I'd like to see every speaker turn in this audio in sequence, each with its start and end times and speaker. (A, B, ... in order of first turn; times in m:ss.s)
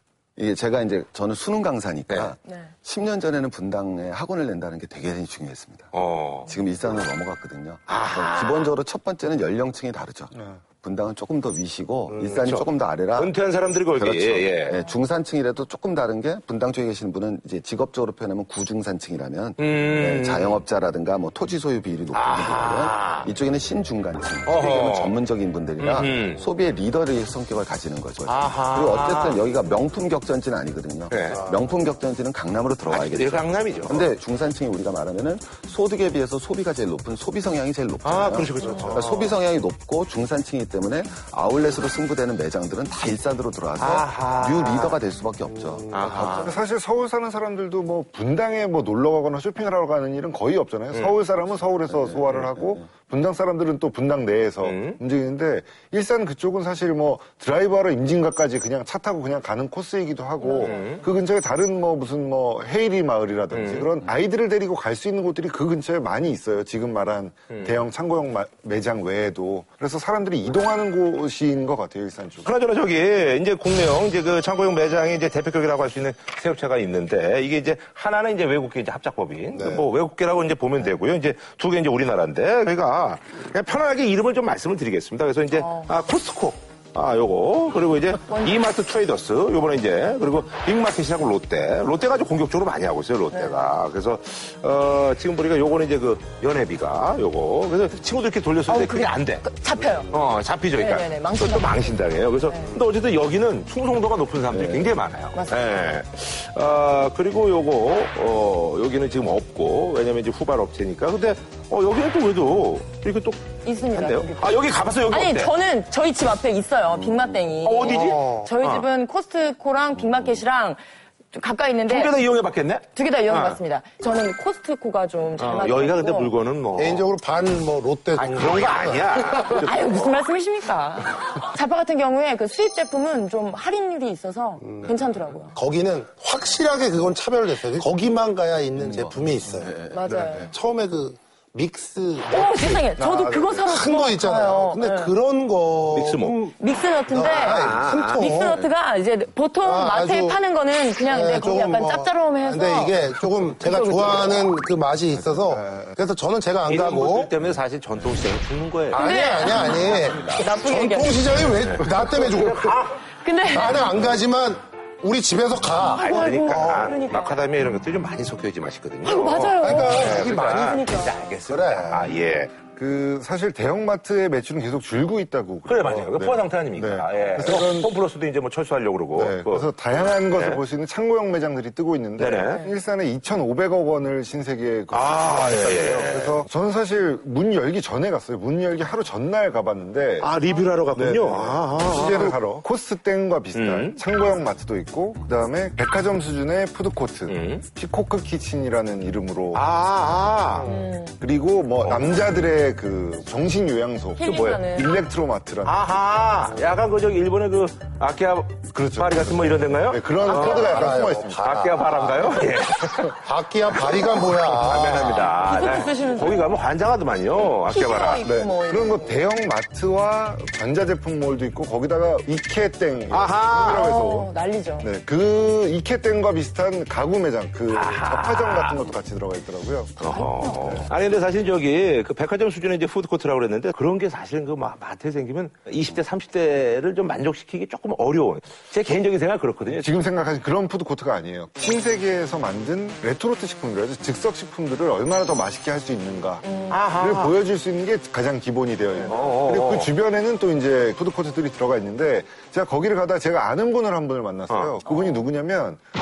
0:00.4-0:05.9 A
0:02.5-0:02.7 B
0:05.9-0:06.6 C
0:06.5-0:13.4 A
0:07.9-0:08.7 C
0:12.3-0:14.8 C
0:14.0-0:46.3 A
0:19.6-0:20.6 C
0:22.1-0:23.3 C
0:24.4-0:25.2 C
0:25.8-0:26.4 C
0:28.3-0:29.4 C
0:31.1-0:31.5 C
0:31.3-0:31.7 D
0:32.9-0:34.1 C
0:38.0-0:39.4 C
0:38.7-0:39.0 B
0:43.8-0:45.0 C
0:45.9-0:46.6 C
0:46.2-1:12.5 E
0:51.8-0:52.9 A
0:54.6-0:55.0 C
1:00.4-1:01.2 B
1:00.6-1:01.0 C
1:03.5-1:04.1 C
1:07.5-1:07.8 C
1:12.4-1:39.5 C
1:19.5-1:19.9 D
1:25.5-1:25.9 B
1:28.3-1:28.6 B
1:33.3-1:33.7 B
1:38.7-1:40.1 B
1:40.1-1:55.5 C
1:40.8-1:42.8 B
1:44.5-1:45.0 A
1:45.3-1:45.7 B
1:53.6-2:00.8 B
1:57.6-1:58.8 C
1:57.9-1:58.5 D
2:01.3-2:02.2 B
2:01.9-2:03.6 C
2:02.9-2:06.3 B
2:05.4-2:07.1 C
2:06.8-2:09.6 D
2:08.2-2:10.1 C
2:09.6-2:15.6 B
2:14.6-2:15.0 D
2:15.5-2:19.8 D
2:18.8-2:20.4 A
2:19.6-2:20.5 E
2:19.9-2:20.5 B
2:20.4-2:22.9 D
2:22.3-2:25.2 B
2:22.9-2:23.7 E
2:23.6-2:28.6 D
2:25.9-2:26.4 C
2:26.6-2:33.0 B
2:27.3-2:28.5 C
2:29.6-2:37.3 D
2:33.6-2:34.4 B
2:35.1-2:36.0 E
2:36.7-2:39.2 C
2:38.9-2:47.0 D
2:39.0-2:41.4 B
2:39.9-2:40.4 C
2:41.6-2:43.1 C
2:42.0-2:42.4 B
2:43.1-2:44.0 B
2:45.8-2:47.4 B
2:45.9-2:52.5 C
2:49.0-2:51.3 B
2:49.6-2:50.8 D
2:51.5-2:52.1 D
2:52.7-2:57.9 E
2:55.7-3:00.6 C
2:59.2-3:10.3 E
3:02.2-3:02.7 C
3:02.5-3:02.8 B
3:04.9-3:06.4 C
3:10.2-3:12.4 C
3:10.9-3:19.6 E
3:13.5-3:14.0 C
3:17.3-3:17.7 C
3:19.5-3:20.7 C
3:20.6-3:20.8 D
3:20.6-3:21.2 B
3:21.2-3:25.8 E
3:21.8-3:22.2 C
3:24.2-3:24.9 B
3:25.6-3:30.8 C
3:28.7-3:31.6 E
3:30.2-3:32.4 D
3:31.4-3:38.3 C
3:33.2-3:35.5 D
3:35.4-3:36.6 B
3:37.7-3:39.2 B
3:38.2-3:44.3 E
3:43.1-3:43.9 C
3:43.6-3:44.9 B
3:44.8-3:50.0 E
3:47.7-3:48.8 C
3:50.0-3:50.8 B
3:50.0-4:00.0 C
3:50.6-3:50.9 E
3:59.8-4:15.8 E
4:06.4-4:06.9 B
4:06.7-4:07.4 C
4:09.0-4:09.9 C
4:14.5-4:14.8 C
4:14.8-4:15.3 B